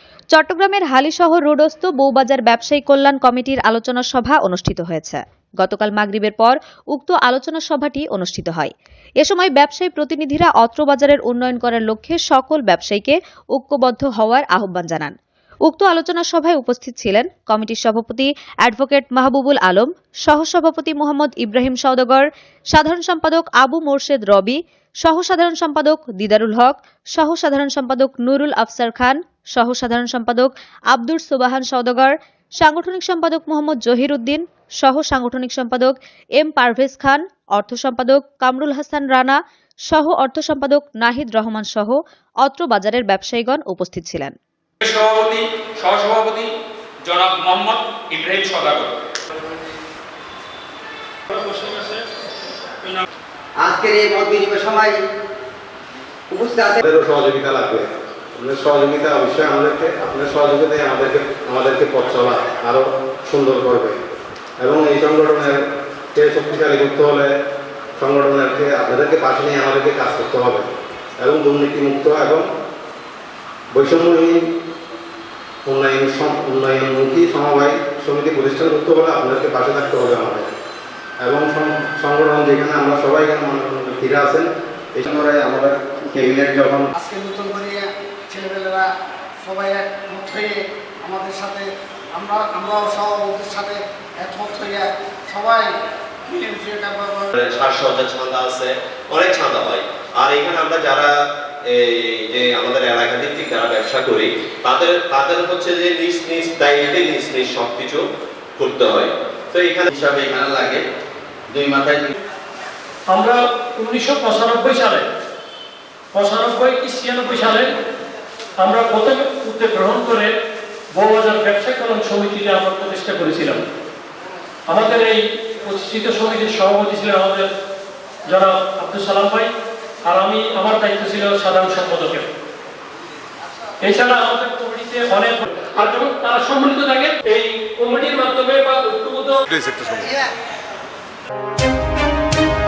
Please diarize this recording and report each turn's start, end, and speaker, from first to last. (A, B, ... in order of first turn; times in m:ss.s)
0:00.3-0:08.7 A
0:09.2-0:15.1 A
0:15.7-0:39.4 A
0:39.9-0:44.3 A
0:44.8-0:49.0 B
0:53.6-0:55.1 C
0:56.3-0:56.8 C
0:56.8-1:04.0 D
1:04.6-1:07.3 D
1:08.0-1:10.7 D
1:11.2-1:12.5 D
1:13.7-1:14.4 D
1:15.6-1:20.5 D
1:21.2-1:26.9 D
1:27.0-1:28.9 E
1:29.4-1:35.7 E
1:36.3-1:37.3 E
1:37.4-1:41.1 F
1:41.7-1:48.0 F
1:48.6-1:50.8 F
1:51.5-1:52.1 F
1:53.1-1:55.0 G
1:56.1-1:57.7 G
1:58.6-2:00.3 G
2:01.0-2:03.6 G
2:04.7-2:07.5 G
2:08.3-2:09.5 G
2:10.1-2:12.3 G
2:13.8-2:19.4 G
2:19.9-2:20.2 E